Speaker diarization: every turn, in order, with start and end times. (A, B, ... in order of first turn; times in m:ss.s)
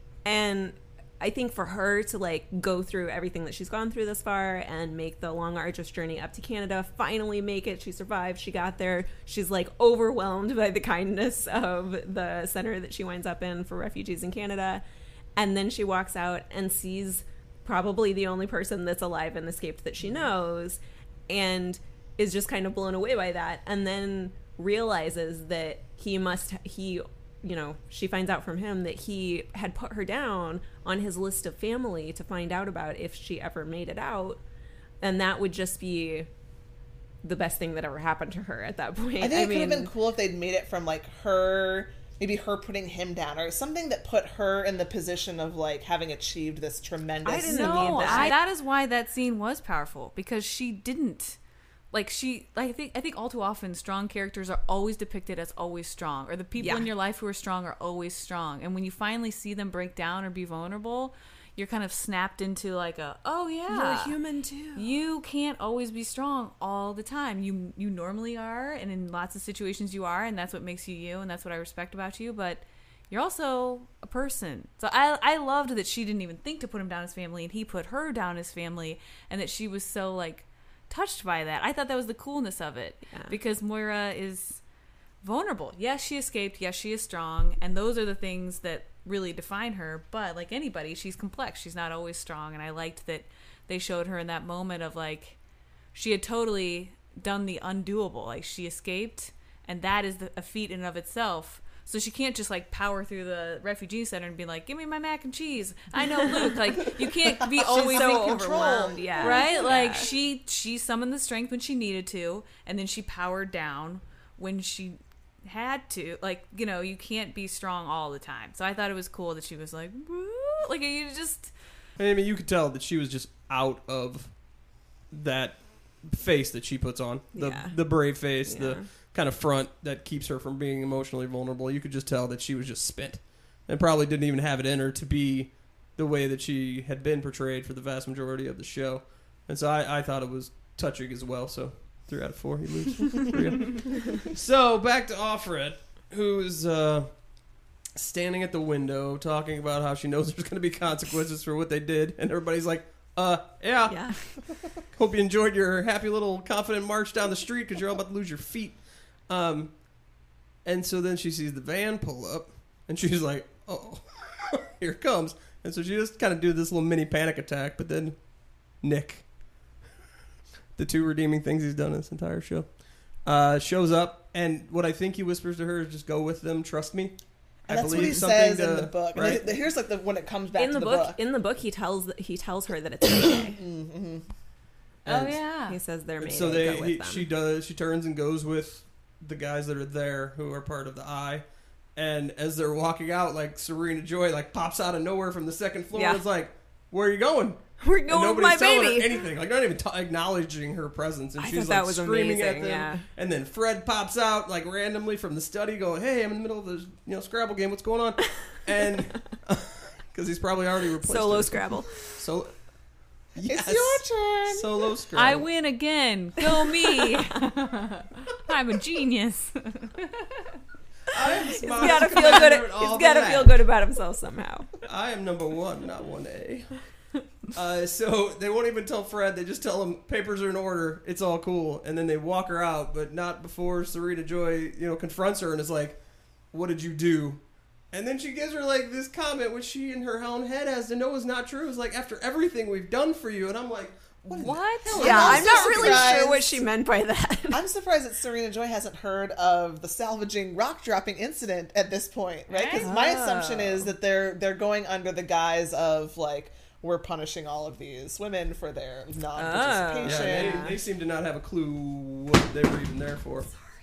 0:00.2-0:14.8 A
0:15.4-0:34.4 A
0:35.0-0:36.3 A
0:37.2-0:39.9 A
0:39.2-0:48.4 B
0:47.2-0:48.4 A
0:47.5-0:51.4 C
0:51.9-1:04.2 C
0:56.6-0:56.9 A
1:03.7-1:04.9 A
1:04.8-1:24.6 C
1:23.1-1:23.4 A
1:25.2-1:35.4 C
1:35.9-2:01.5 C
1:46.2-1:46.6 A
1:47.4-1:49.9 B
1:47.6-1:50.1 A
2:02.0-2:04.4 D
2:05.1-2:27.3 D
2:07.3-2:08.9 A
2:28.0-2:39.8 D
2:33.9-2:34.2 A
2:40.6-2:49.3 D
2:50.8-2:59.6 D
2:57.7-3:01.2 B
3:00.6-3:03.6 A
3:03.3-3:04.3 B
3:05.0-3:05.8 C
3:05.1-3:05.4 D
3:05.7-3:07.3 A
3:06.2-3:32.7 D
3:15.9-3:16.2 A
3:17.8-3:19.3 A
3:21.4-3:23.1 A
3:31.0-3:32.2 A
3:33.3-3:35.5 D
3:33.4-3:34.9 B
3:35.2-3:40.5 C
3:36.6-3:37.5 A
3:41.1-3:43.5 D
3:41.2-3:44.8 A
3:41.8-3:42.5 C
3:44.8-4:06.2 D
4:04.3-4:05.3 C
4:04.9-4:06.6 B
4:05.0-4:07.6 A
4:07.5-4:20.7 B
4:12.5-4:12.9 C
4:12.8-4:13.9 A
4:19.4-4:20.8 A
4:20.0-4:23.5 D